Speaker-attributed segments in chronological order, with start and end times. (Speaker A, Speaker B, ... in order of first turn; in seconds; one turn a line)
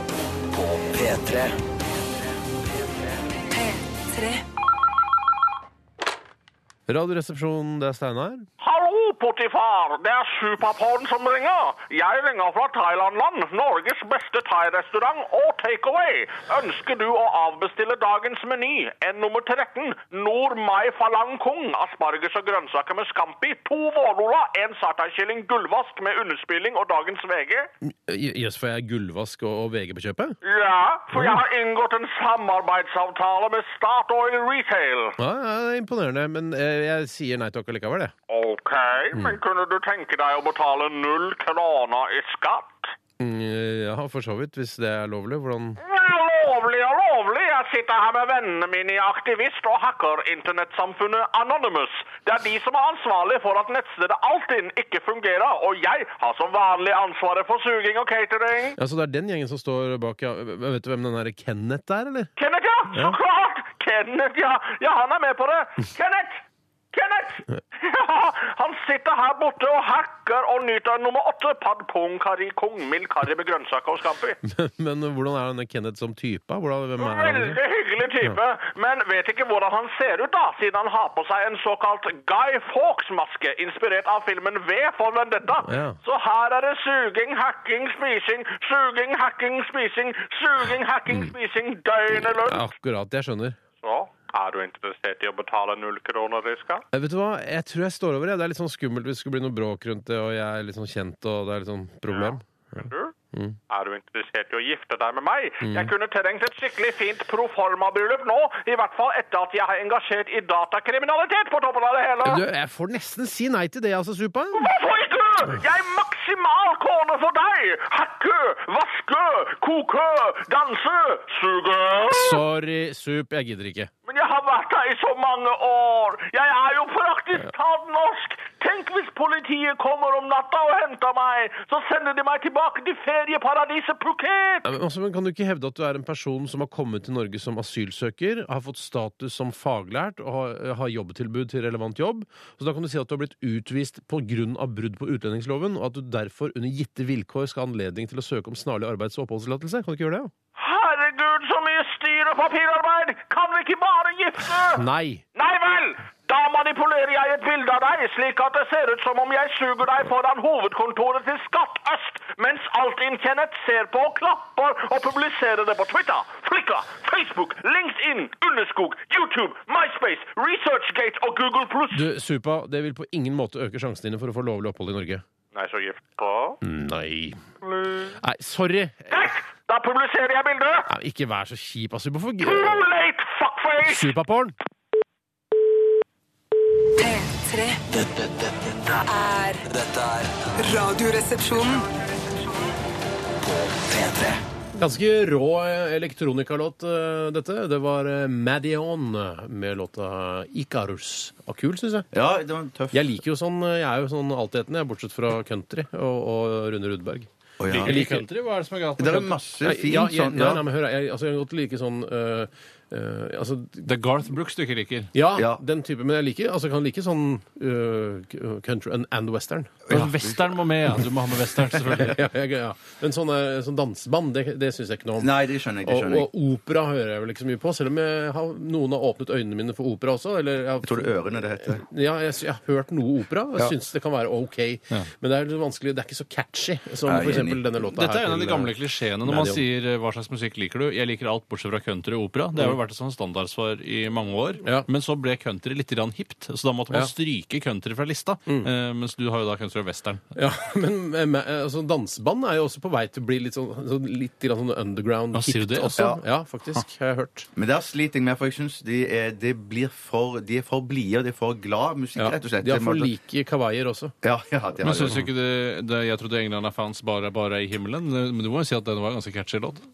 Speaker A: 0.5-3.2
Speaker B: 3.5-4.4
Speaker C: 6.9-8.5
Speaker D: 8.6-27.7
Speaker C: 27.9-30.4
Speaker D: 30.4-35.2
Speaker C: 31.1-31.4
Speaker C: 35.2-38.1
Speaker D: 38.3-42.9
Speaker C: 39.1-39.4
Speaker C: 43.2-45.8
Speaker D: 45.8-58.8
Speaker C: 58.8-62.3
Speaker D: 62.4-74.4
Speaker C: 62.9-63.2
Speaker C: 74.4-77.6
Speaker D: 77.0-92.7
Speaker C: 85.6-86.0
Speaker C: 91.1-91.3
Speaker C: 92.1-93.6
Speaker D: 93.8-96.8
Speaker C: 96.9-103.6
Speaker D: 102.1-103.1
Speaker D: 103.7-112.4
Speaker C: 105.6-105.9
Speaker C: 112.2-114.7
Speaker D: 114.5-122.4
Speaker C: 122.1-123.9
Speaker D: 124.1-134.7
Speaker C: 134.7-150.3
Speaker D: 150.6-154.8
Speaker C: 154.7-155.2
Speaker D: 155.3-172.1
Speaker C: 171.9-175.2
Speaker D: 175.5-176.6
Speaker C: 176.6-177.4
Speaker D: 177.7-178.1
Speaker C: 178.2-179.3
Speaker D: 179.1-180.9
Speaker C: 180.9-182.8
Speaker D: 182.4-184.1
Speaker C: 183.8-184.6
Speaker B: 187.0-187.8
Speaker A: 187.9-189.1
Speaker B: 189.1-189.6
Speaker A: 189.7-190.6
Speaker B: 190.6-192.6
Speaker A: 193.4-194.4
Speaker C: 194.8-202.1
Speaker E: 202.1-203.1
Speaker C: 202.9-207.3
Speaker E: 207.6-208.0
Speaker F: 207.7-209.4
Speaker C: 207.8-208.2
Speaker E: 209.0-210.6
Speaker C: 209.6-213.8
Speaker F: 213.8-215.1
Speaker C: 215.1-219.9
Speaker E: 215.3-215.6
Speaker E: 219.9-220.5
Speaker F: 219.9-222.2
Speaker C: 222.0-238.7
Speaker E: 225.2-226.3
Speaker E: 230.8-231.8
Speaker E: 237.1-237.6
Speaker F: 237.8-250.2
Speaker C: 239.2-239.6
Speaker C: 250.3-257.5
Speaker F: 255.3-256.1
Speaker E: 257.6-263.1
Speaker C: 262.2-264.1
Speaker E: 264.2-265.2
Speaker F: 264.8-269.8